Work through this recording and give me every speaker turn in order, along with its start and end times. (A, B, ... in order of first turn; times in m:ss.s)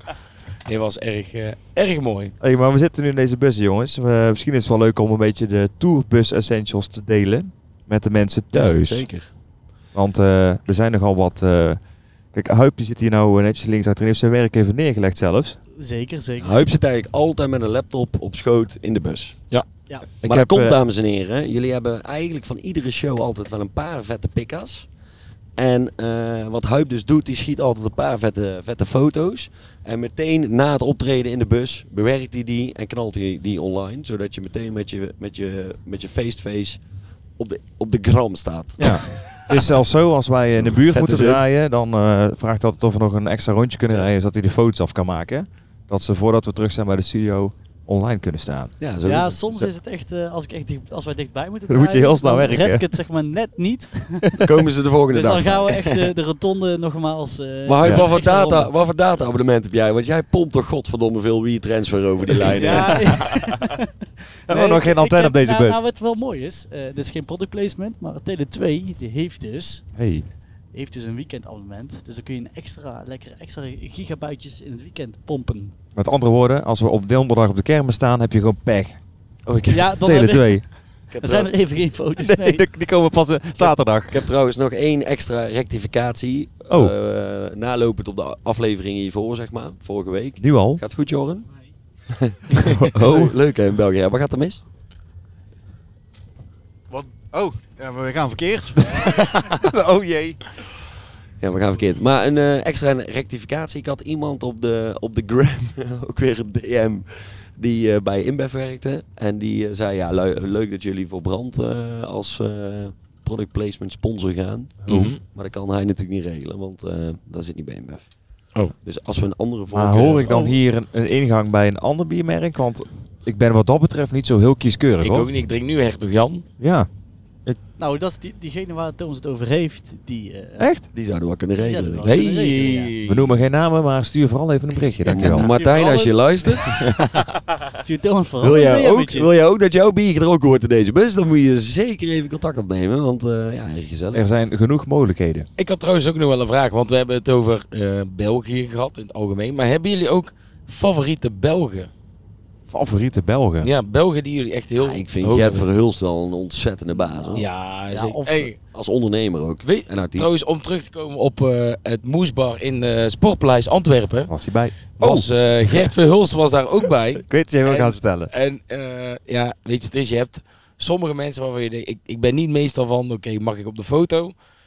0:00.6-0:02.3 A
0:02.4-0:09.1 B
0:08.5-0:09.3 C
0:09.9-0:11.8 B
0:12.3-0:15.6 B
0:15.8-0:16.7 D
0:16.4-0:19.5 C
0:20.2-0:24.9 C
0:20.2-0:20.8 B
0:25.6-0:39.6 C
0:38.8-0:48.7 B
0:40.5-0:41.4 C
0:48.8-0:49.7 C
0:49.0-0:54.4 D
0:51.7-0:52.8 B
0:54.4-0:55.7 C
0:55.1-0:58.7 D
0:57.7-1:03.3 C
1:02.6-1:03.9 D
1:04.4-1:05.8 B
1:04.5-1:10.0 D
1:09.9-1:10.2 B
1:10.7-1:15.7 D
1:15.9-1:19.0 B
1:19.5-1:19.7 C
1:19.7-1:22.6 D
1:19.9-1:20.7 B
1:21.1-1:21.5 C
1:22.2-1:24.3 B
1:23.6-1:31.5 C
1:26.7-1:26.9 B
1:30.4-1:30.8 B
1:32.1-1:34.6 C
1:32.7-1:33.3 B
1:36.9-1:39.4 E
1:39.1-1:39.6 A
1:39.5-1:40.5 B
1:41.4-2:00.5 C
1:54.8-1:55.1 B
1:54.9-1:55.2 A
1:59.7-2:05.3 B
2:00.3-2:00.6 D
2:05.0-2:06.4 A
2:06.6-2:06.9 B
2:07.8-2:10.7 D
2:10.6-2:10.9 B
2:10.9-2:12.0 C
2:11.6-2:12.9 D
2:12.0-2:13.3 A
2:13.0-2:15.5 B
2:15.0-2:17.1 C
2:15.2-2:16.3 D
2:17.8-2:19.3 D
2:18.4-2:24.2 C
2:24.1-2:25.5 B
2:25.6-2:31.9 A
2:32.7-2:33.7 B
2:33.6-2:35.7 A
2:34.8-2:37.5 C
2:37.1-2:38.5 D
2:37.3-2:38.6 A
2:38.6-2:40.3 C
2:39.6-2:54.3 A
2:44.3-2:45.9 B
2:47.2-2:48.3 B